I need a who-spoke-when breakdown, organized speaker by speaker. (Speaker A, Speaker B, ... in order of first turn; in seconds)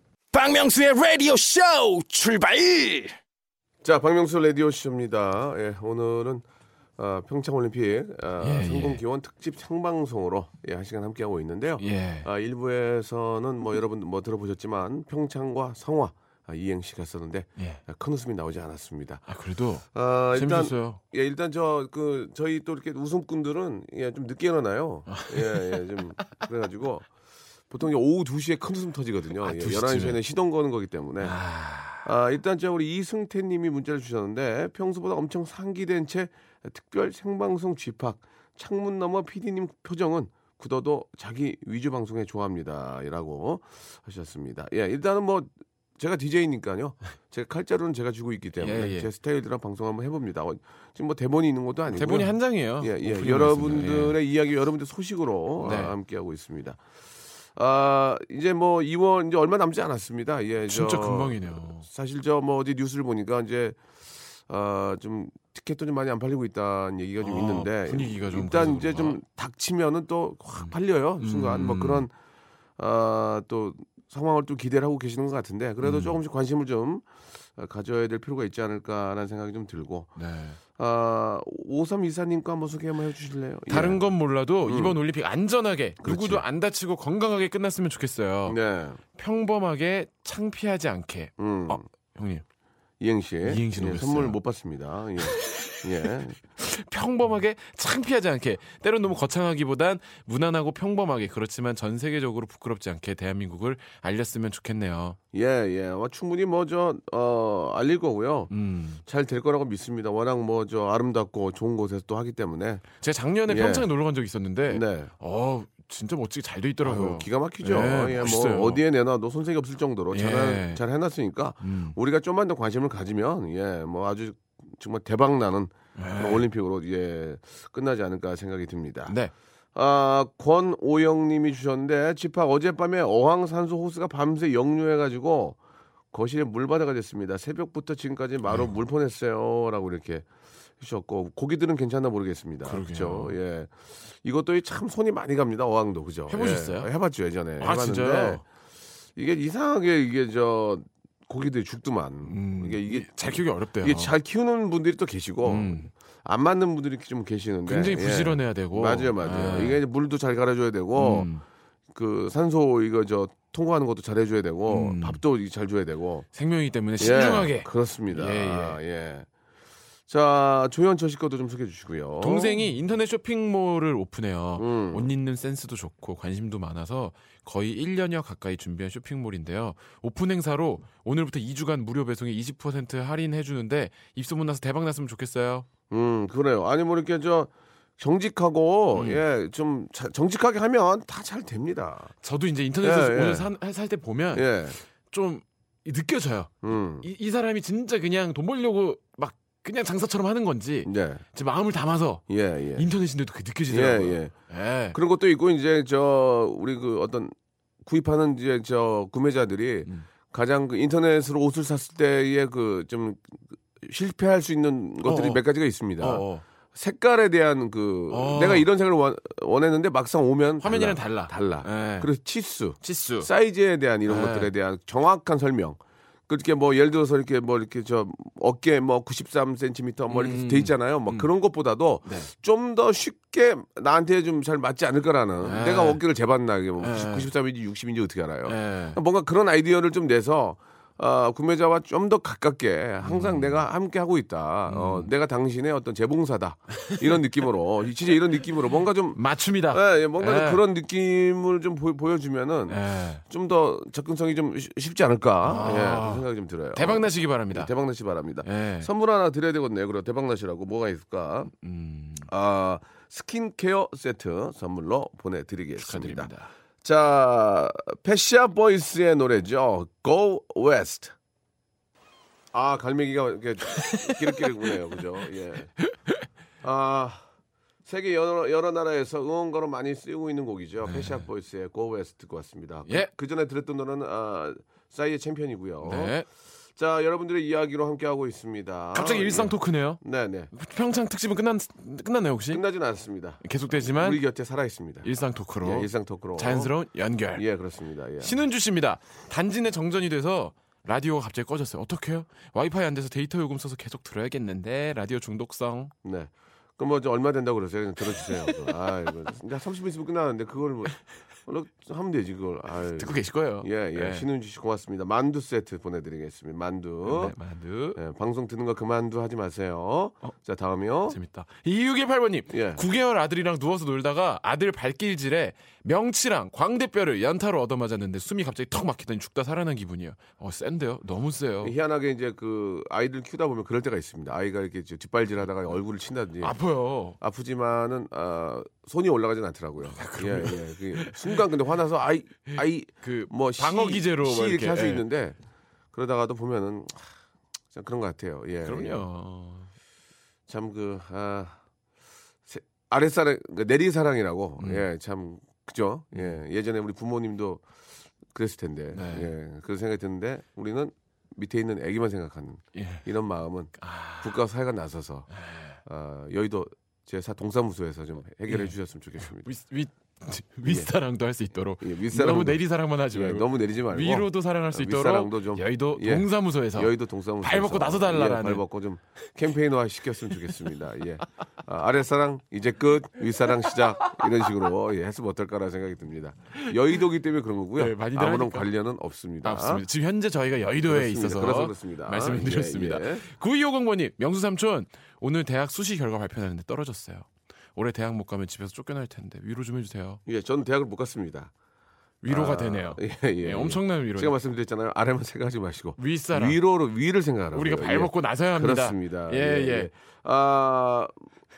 Speaker A: 0.3-3.1
Speaker B: 3.8-6.4, 7.0-19.2, 19.9-27.1, 27.7-31.4, 32.0-56.8, 57.6-63.8, 64.5-72.1, 72.8-80.1, 80.8-84.0, 84.6-85.0, 86.0-86.4, 88.5-89.0, 91.4-91.9, 93.0-96.4, 105.3-108.5, 109.0-112.9, 113.5-113.9, 114.7-115.1, 116.8-129.2, 129.8-135.6, 136.1-140.3, 140.8-148.4, 149.2-153.1, 153.8-161.3, 161.9-166.3, 167.0-169.3, 170.1-172.7, 174.6-175.1, 185.9-192.1, 192.8-193.5, 194.3-194.8, 196.6-197.1, 200.8-201.2, 202.3-202.9, 203.7-204.3, 204.9-261.5, 262.2-266.3, 266.8-271.1, 272.5-275.7, 276.6-277.2, 277.9-286.2, 286.8-290.5, 292.5-295.1, 295.6-296.7, 297.3-298.4, 306.0-317.4, 317.9-321.2, 322.5-322.8, 331.6-336.6, 337.2-345.4, 345.9-347.1, 347.7-349.1, 350.5-351.6, 352.5-357.6, 358.3-365.3, 365.9-369.5, 371.8-389.9, 390.9-393.2, 400.3-401.5, 402.3-411.1
Speaker C: 8.4-9.0, 11.8-12.3, 19.3-21.0, 25.1-25.8, 29.4-30.2, 31.2-32.1, 48.6-49.1, 51.9-54.2, 55.6-56.0, 60.7-61.9, 67.2-69.2, 70.6-72.1, 75.8-76.2, 80.2-80.6, 83.7-88.6, 89.1-92.4, 93.5-94.4, 95.2-96.1, 96.6-105.2, 108.5-109.0, 113.0-118.8, 120.1-120.8, 121.6-122.0, 126.0-126.5, 129.1-129.3, 142.7-143.4, 146.3-146.9, 147.6-148.4, 152.2-154.1, 155.4-155.9, 157.7-159.8, 161.0-161.4, 164.7-165.2, 166.3-168.8, 172.2-185.7, 188.9-189.2, 192.2-194.5, 195.1-202.2, 202.8-205.0, 215.0-215.4, 216.0-216.4, 218.1-218.7, 220.6-222.1, 222.8-223.3, 224.1-224.5, 230.1-231.3, 235.4-236.0, 236.8-237.3, 238.5-239.0, 243.0-243.6, 244.7-245.1, 249.2-250.6, 252.7-253.2, 255.4-257.7, 258.4-258.9, 261.5-262.3, 265.8-266.5, 273.7-274.5, 280.8-281.2, 285.8-286.3, 288.9-290.0, 290.5-292.6, 293.4-294.2, 295.0-297.4, 298.2-305.9, 308.2-308.5, 313.0-314.3, 317.0-318.0, 321.1-331.7, 336.4-337.2, 339.9-341.4, 343.0-345.1, 348.6-349.7, 354.6-354.9, 358.9-359.3, 362.8-363.1, 363.8-364.4, 365.4-365.8, 368.5-368.8, 369.4-378.6, 387.8-388.7, 389.4-400.2, 402.2-404.4, 406.0-406.6, 407.5-409.9